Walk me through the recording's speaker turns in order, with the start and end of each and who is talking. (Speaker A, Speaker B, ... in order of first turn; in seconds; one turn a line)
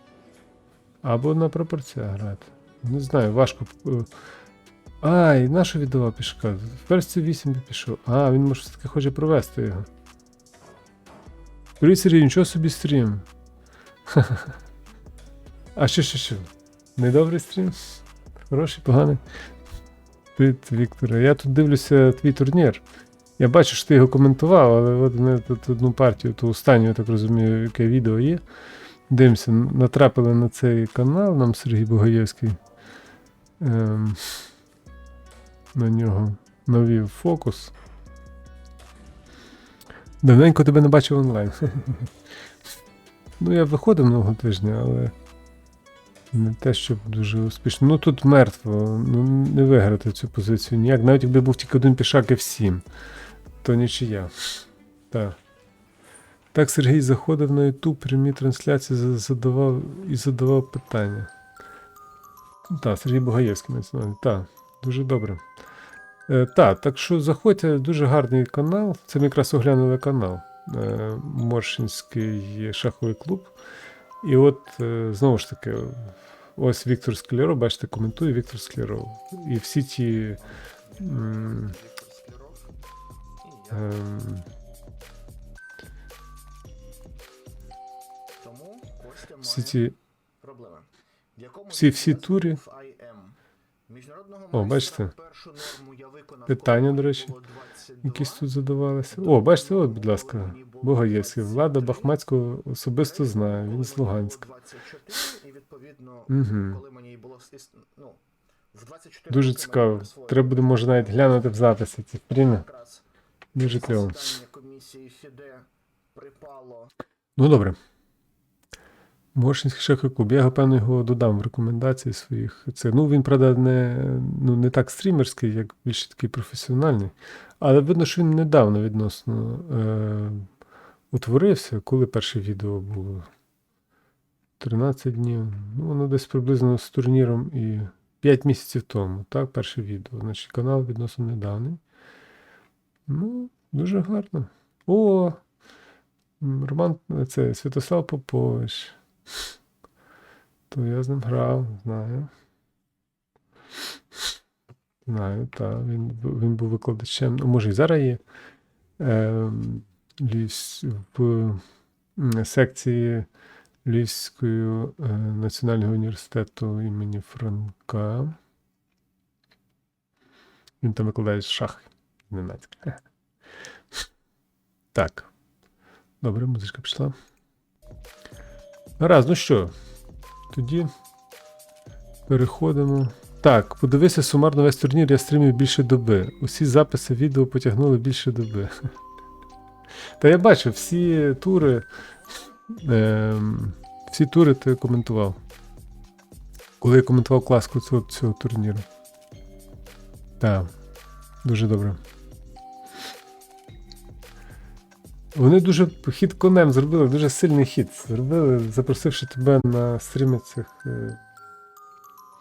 Speaker A: 1.0-4.1
Speaker A: 5.0-9.9
Speaker A: 11.8-13.3
Speaker A: 14.1-14.6
Speaker A: 15.8-17.8
Speaker A: 18.5-19.2
Speaker A: 20.4-22.8
Speaker A: 23.4-28.4
Speaker A: 29.1-32.6
Speaker A: 33.6-34.4
Speaker A: 35.7-37.7
Speaker A: 40.2-42.1
Speaker A: 43.4-45.1
Speaker A: 46.3-52.9
Speaker A: 53.6-55.4
Speaker A: 56.5-61.3
Speaker A: 62.7-65.5
Speaker A: 66.3-73.5
Speaker A: 74.2-80.4
Speaker B: 80.9-82.7
Speaker A: 81.0-81.7
Speaker B: 83.4-84.0
Speaker A: 83.7-84.5
Speaker B: 88.4-89.8
Speaker A: 89.4-90.0
Speaker B: 90.4-98.5
Speaker A: 91.7-92.6
Speaker A: 94.5-95.1
Speaker A: 96.5-97.3
Speaker A: 98.0-104.5
Speaker B: 99.1-102.2
Speaker B: 103.0-111.0
Speaker A: 106.3-106.8
Speaker A: 109.3-112.7
Speaker B: 112.5-116.9
Speaker A: 113.5-114.3
Speaker A: 117.4-117.8
Speaker A: 119.3-130.5
Speaker A: 131.1-133.3
Speaker A: 134.6-141.8
Speaker A: 143.1-145.4
Speaker A: 146.4-149.0
Speaker A: 150.7-152.3
Speaker A: 155.1-158.2
Speaker A: 159.0-161.6
Speaker A: 162.2-163.3
Speaker A: 163.8-168.4
Speaker A: 170.8-173.0
Speaker A: 174.9-175.3
Speaker A: 176.2-177.2
Speaker A: 179.0-179.8
Speaker A: 180.5-180.9
Speaker A: 182.3-188.9
Speaker A: 190.2-191.9
Speaker A: 192.7-195.4
Speaker A: 196.8-198.9
Speaker A: 200.4-200.7
Speaker A: 201.4-202.0
Speaker A: 205.3-211.2